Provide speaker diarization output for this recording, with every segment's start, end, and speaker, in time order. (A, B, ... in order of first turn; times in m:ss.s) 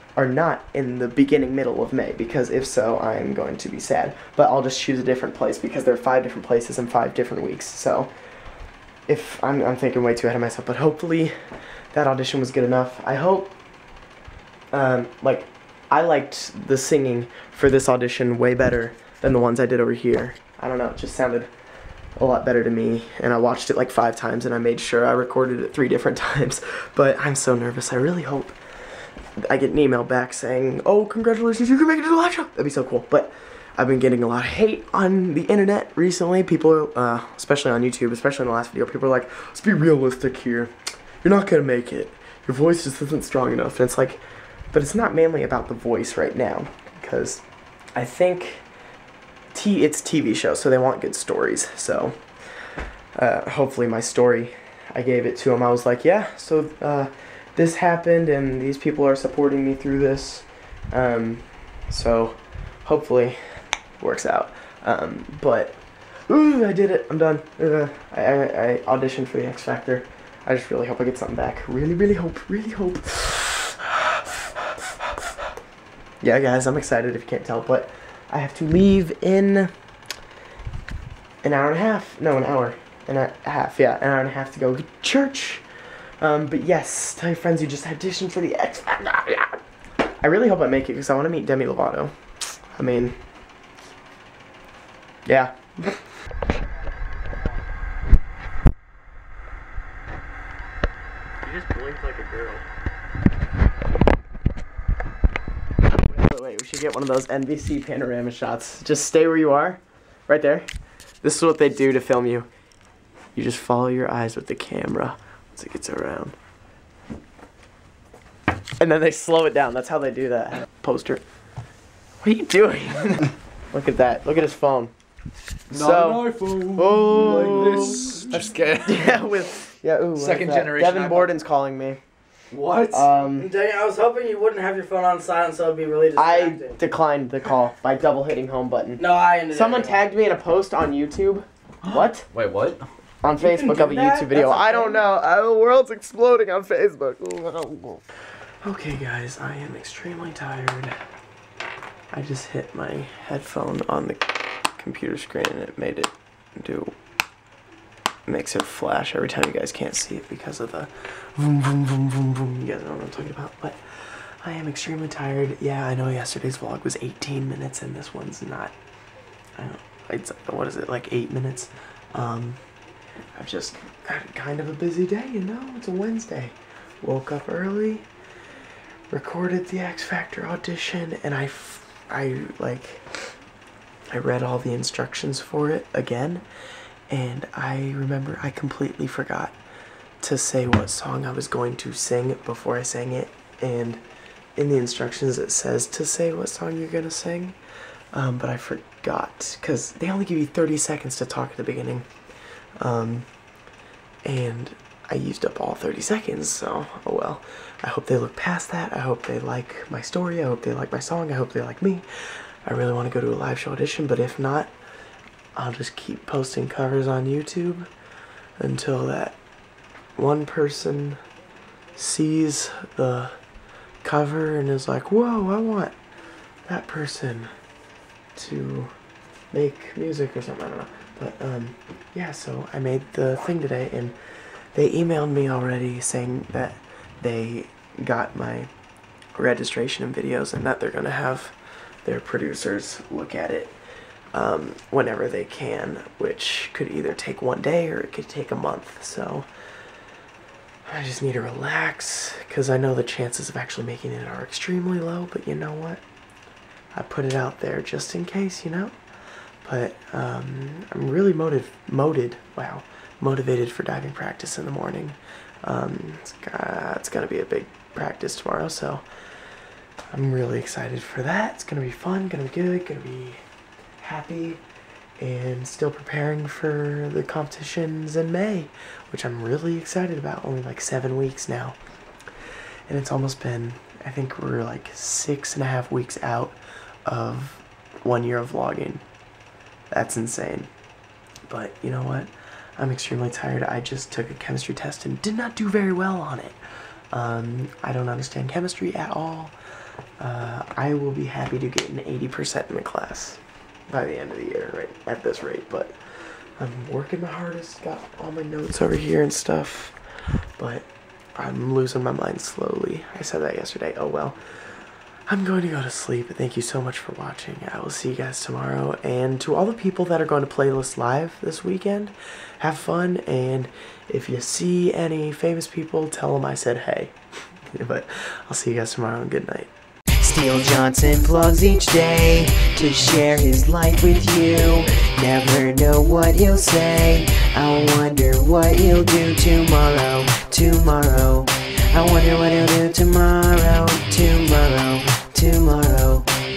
0:00.2-0:08.1 A
0:09.1-0:11.3 A
0:11.9-0:13.5 A
0:14.7-0:21.5 A
0:22.2-0:28.6 A
0:29.4-0:47.4 A
0:48.0-0:48.6 A
0:49.5-0:52.2 A
0:53.1-1:03.4 A
1:04.0-1:15.3 A
1:16.2-1:19.7 A
1:21.4-1:25.6 A
1:26.2-1:29.6 A
1:30.2-1:32.1 A
1:32.7-1:33.2 A
1:35.2-1:36.0 A
1:41.4-1:42.6 A
1:45.9-1:50.7 A
1:51.2-1:52.5 A
1:53.3-1:56.4 A
1:58.8-2:01.2 A
2:02.2-2:04.9 A
2:05.7-2:09.2 B
2:05.7-2:12.0 A
2:10.2-2:11.3 B
2:12.5-2:13.1 B
2:12.9-2:13.5 A
2:13.3-2:16.8 C
2:16.2-2:22.3 A
2:19.0-2:20.0 C
2:21.9-2:22.8 B
2:23.2-2:28.0 A
2:23.9-2:25.0 C
2:28.6-2:30.9 A
2:32.1-2:36.9 A
2:38.2-2:48.7 A
2:49.6-2:52.6 A
2:53.4-2:58.0 A
2:59.1-3:03.1 A
3:04.1-3:06.4 A
3:07.1-3:09.6 A
3:10.2-3:14.0 A
3:14.6-3:17.6 A
3:18.1-3:22.1 A
3:22.8-3:23.2 A
3:24.2-3:32.0 A
3:32.6-3:34.7 A
3:35.6-3:37.9 A
3:38.6-3:39.4 A
3:40.2-3:41.2 A
3:42.0-3:43.4 A
3:44.0-3:46.0 A
3:46.6-3:47.5 A
3:48.4-3:48.9 A
3:49.5-3:54.2 A
3:54.7-3:58.7 A
3:59.4-4:03.7 A
4:04.3-4:09.5 A
4:10.8-4:16.0 A
4:17.0-4:19.0 A
4:19.6-4:29.0 A
4:30.1-4:33.4 A
4:34.0-4:34.6 A
4:35.2-4:41.8 A
4:42.9-4:49.0 A
4:49.9-4:50.7 A
4:51.5-4:56.6 A
4:57.1-4:59.5 A
5:00.2-5:05.9 A
5:06.6-5:10.0 A
5:10.6-5:14.4 A
5:15.3-5:27.1 A
5:27.7-5:29.7 A
5:30.2-5:46.3 D